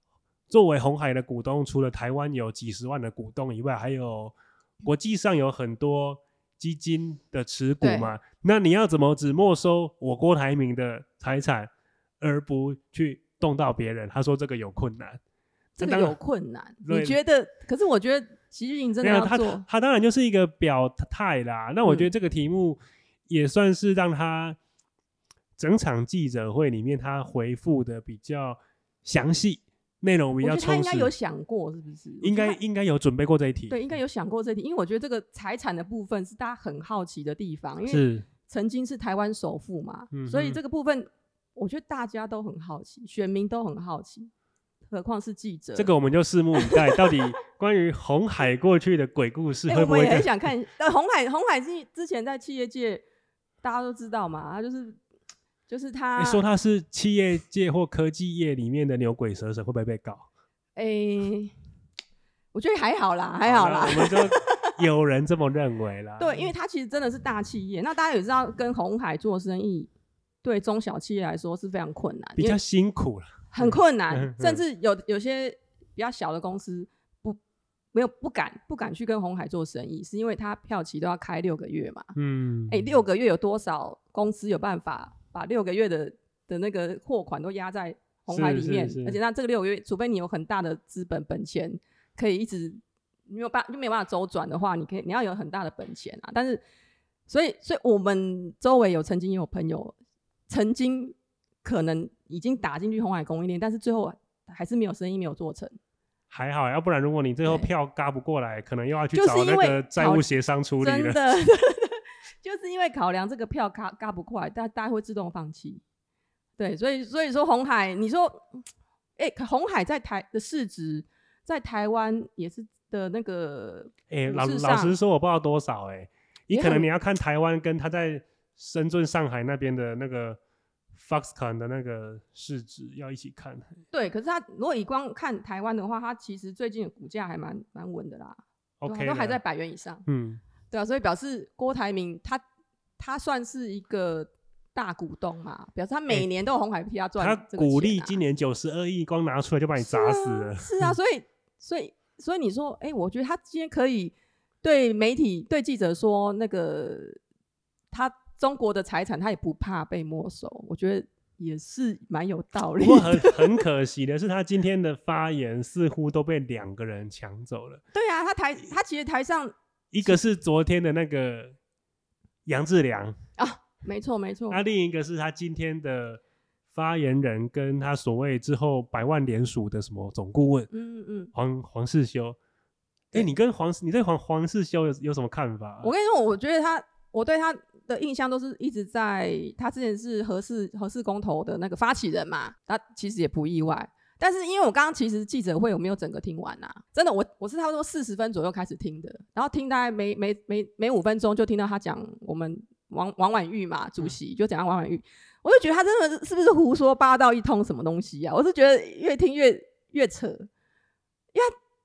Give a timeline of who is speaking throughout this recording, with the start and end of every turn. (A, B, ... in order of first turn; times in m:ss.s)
0:00.5-0:15.2 A
0:07.8-0:08.2 B
0:15.8-0:19.6 B
0:15.8-0:16.2 A
0:16.8-0:17.2 A
0:19.0-0:22.8 A
0:23.3-0:24.6 A
0:25.6-0:31.1 A
0:30.4-0:32.6 B
0:32.2-0:33.8 A
0:33.7-0:44.3 B
0:37.9-0:38.3 A
0:40.1-0:40.6 A
0:44.9-0:45.9 B
0:45.8-0:50.3 A
0:46.6-0:47.0 B
0:49.7-0:53.0 B
0:53.6-0:55.0 B
0:55.7-0:56.4 B
0:56.2-1:00.3 A
1:00.8-1:01.5 B
1:02.5-1:04.8 B
1:03.4-1:06.5 A
1:06.2-1:09.9 B
1:10.4-1:12.6 B
1:12.4-1:14.6 A
1:13.5-1:17.4 B
1:17.9-1:22.1 B
1:22.2-1:22.8 A
1:22.7-1:36.6 B
1:28.3-1:29.2 A
1:37.3-1:40.0 B
1:40.5-1:45.8 B
1:46.3-1:51.2 A
1:49.1-1:50.2 B
1:50.8-1:55.8 B
1:56.6-1:58.5 B
1:59.2-2:05.0 B
2:04.1-2:10.4 A
2:06.5-2:06.9 B
2:10.9-2:13.7 A
2:13.9-2:20.0 B
2:18.8-2:19.4 A
2:20.1-2:20.4 A
2:20.7-2:22.4 B
2:23.0-2:28.2 B
2:27.2-2:30.9 A
2:29.8-2:37.2 B
2:37.9-2:43.6 B
2:42.8-2:47.8 A
2:47.9-2:49.6 B
2:49.9-2:51.6 A
2:52.5-2:53.2 A
2:53.4-2:54.6 B
2:54.5-2:56.2 A
2:56.7-3:00.7 A
3:00.7-3:01.3 B
3:01.3-3:02.4 A
3:03.1-3:05.9 A
3:05.8-3:30.5 B